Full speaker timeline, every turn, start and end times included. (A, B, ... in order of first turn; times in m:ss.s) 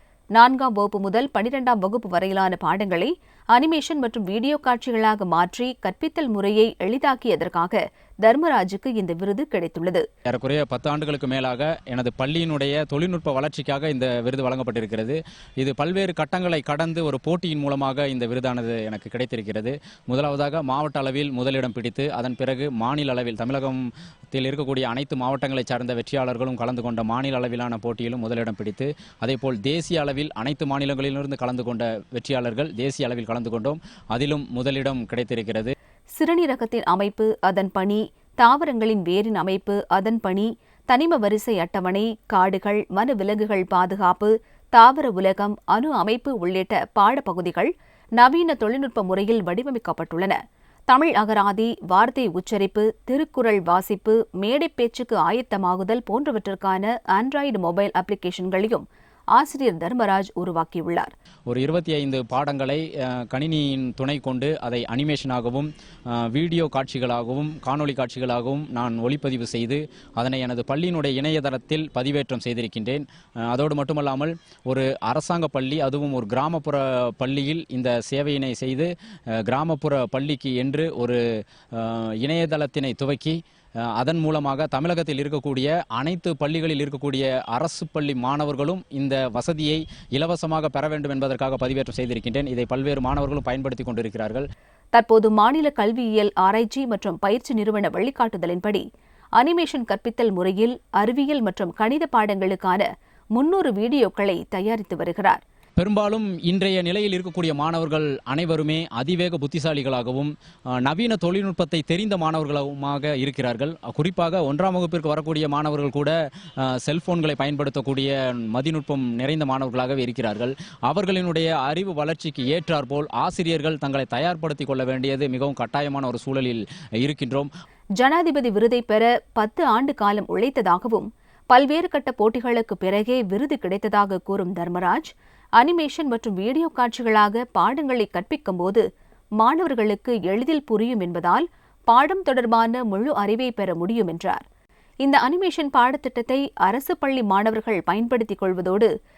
0:00.4-0:10.0 A
0:10.3-0:35.7 B
0:36.2-0:50.4 A
0:50.9-0:58.8 A
0:59.3-1:01.1 A
1:01.5-1:21.2 B
1:21.7-1:23.4 B
1:24.0-1:34.4 B
1:35.0-1:38.8 A
1:39.4-1:45.4 A
1:45.8-1:50.3 B
1:50.8-2:07.5 B
2:08.0-2:18.8 A
2:19.4-2:24.4 A
2:25.0-2:28.9 A